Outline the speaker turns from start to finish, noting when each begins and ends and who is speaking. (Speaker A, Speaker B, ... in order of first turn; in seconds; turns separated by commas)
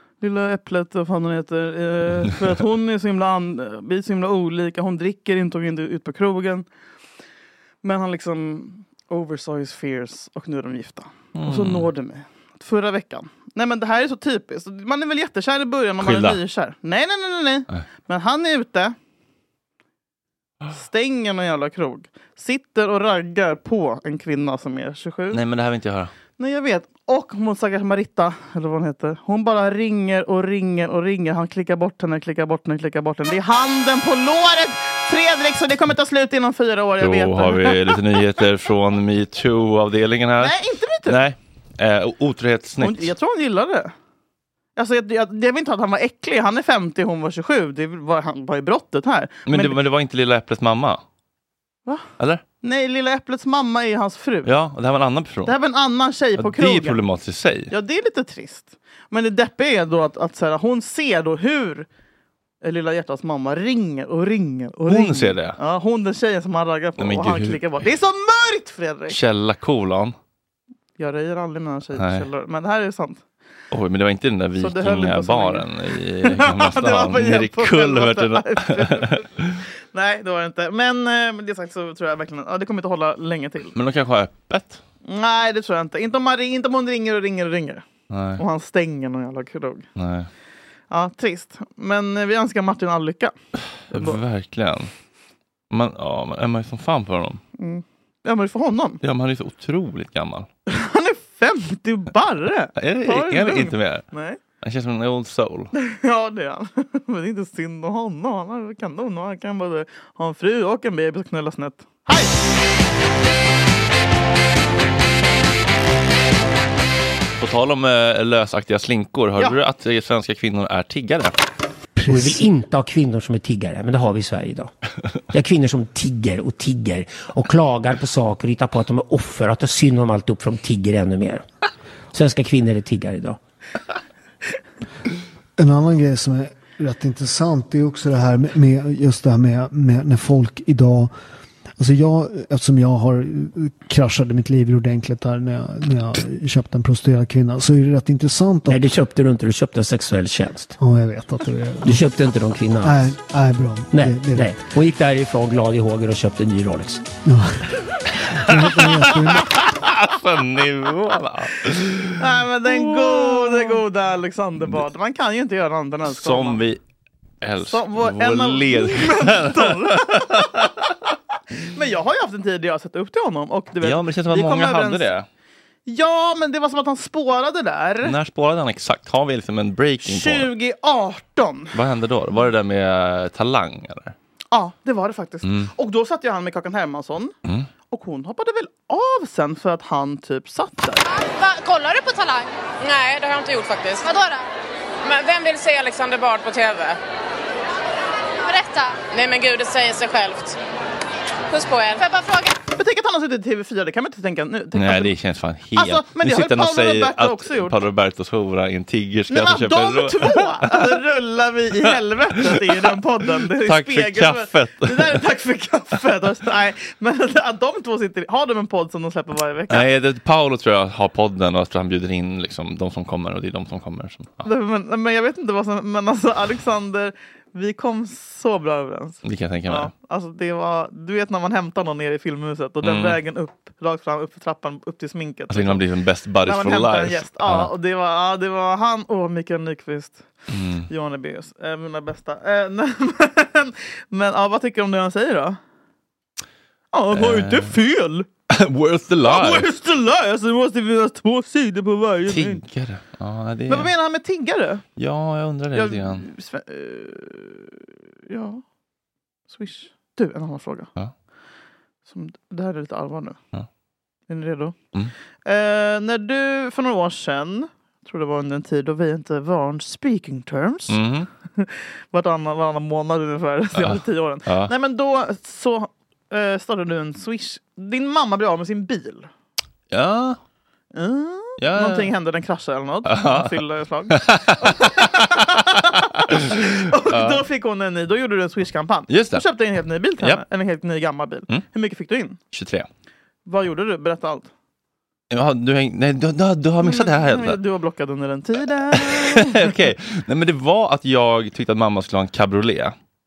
Speaker A: 0.2-6.7, Speaker A: 7.8-18.9, Speaker B: 11.3-11.9, Speaker B: 16.0-16.4, Speaker A: 20.8-25.4, Speaker B: 25.3-26.1, Speaker A: 26.4-38.1, Speaker B: 37.0-40.5, Speaker A: 40.4-41.2, Speaker B: 41.1-43.1, Speaker A: 42.8-43.9, Speaker A: 44.8-49.8, Speaker B: 49.5-51.0, Speaker A: 52.6-54.5, Speaker B: 54.4-55.5, Speaker A: 55.4-57.0, Speaker B: 56.4-57.7, Speaker A: 57.7-61.9, Speaker A: 62.6-69.2, Speaker B: 64.9-65.6, Speaker B: 67.0-67.7, Speaker B: 69.1-70.1, Speaker A: 71.0-73.2, Speaker B: 72.0-72.3, Speaker B: 73.7-79.6, Speaker A: 74.6-75.7, Speaker A: 76.2-79.2, Speaker A: 79.9-83.8, Speaker B: 83.8-84.8, Speaker A: 85.0-87.8, Speaker B: 88.1-88.4, Speaker A: 88.4-89.9, Speaker B: 90.0-90.3, Speaker A: 90.9-93.3, Speaker B: 93.9-94.9, Speaker A: 93.9-94.2, Speaker B: 95.7-97.4, Speaker A: 97.6-99.0, Speaker B: 99.0-100.5, Speaker A: 100.7-104.4, Speaker B: 102.8-104.0, Speaker B: 104.6-105.7, Speaker A: 105.7-112.3, Speaker B: 117.4-121.3, Speaker C: 122.0-122.5, Speaker D: 122.1-124.7, Speaker D: 125.3-131.4, Speaker D: 132.1-133.4, Speaker C: 135.6-141.1, Speaker C: 141.8-148.9, Speaker D: 148.7-150.8, Speaker C: 150.8-152.1, Speaker D: 151.8-153.1, Speaker C: 152.8-154.6, Speaker D: 153.9-157.0, Speaker C: 157.2-157.6, Speaker C: 158.4-159.5, Speaker B: 158.6-163.8, Speaker A: 162.2-166.6, Speaker B: 166.1-166.8, Speaker B: 167.4-170.7, Speaker A: 167.7-170.9, Speaker A: 171.7-175.1, Speaker B: 173.8-175.3, Speaker A: 175.9-178.1, Speaker B: 178.0-180.5, Speaker A: 180.0-181.8, Speaker B: 181.7-184.1, Speaker A: 184.5-187.3, Speaker B: 185.4-185.7, Speaker A: 187.9-191.0, Speaker E: 191.2-194.4, Speaker E: 195.0-197.0, Speaker E: 198.4-200.6, Speaker E: 201.5-202.6, Speaker A: 202.7-205.1, Speaker B: 204.8-210.9, Speaker A: 205.8-207.8, Speaker A: 209.3-219.9, Speaker B: 213.6-215.2, Speaker B: 219.7-224.4, Speaker A: 224.4-235.8, Speaker B: 229.2-229.9, Speaker B: 232.8-233.2, Speaker B: 235.5-237.7, Speaker A: 236.4-240.3, Speaker B: 240.5-240.9, Speaker A: 240.9-245.6, Speaker A: 246.9-248.3, Speaker B: 247.1-247.8, Speaker B: 248.5-249.7, Speaker A: 249.2-252.6, Speaker B: 252.3-253.9, Speaker A: 253.7-254.8, Speaker B: 255.0-256.2, Speaker A: 255.7-258.6, Speaker A: 259.5-260.9, Speaker A: 262.1-263.4, Speaker A: 264.3-264.8, Speaker A: 265.4-271.0, Speaker B: 270.9-271.3, Speaker A: 271.6-279.3, Speaker B: 273.8-274.7, Speaker B: 279.9-280.4, Speaker A: 280.9-292.4, Speaker B: 281.6-282.1, Speaker B: 283.1-283.5, Speaker B: 284.1-285.3, Speaker B: 286.6-287.4, Speaker B: 289.1-289.4, Speaker B: 292.5-292.9, Speaker A: 293.4-294.5, Speaker B: 295.3-297.6, Speaker A: 296.8-299.8, Speaker B: 298.9-302.9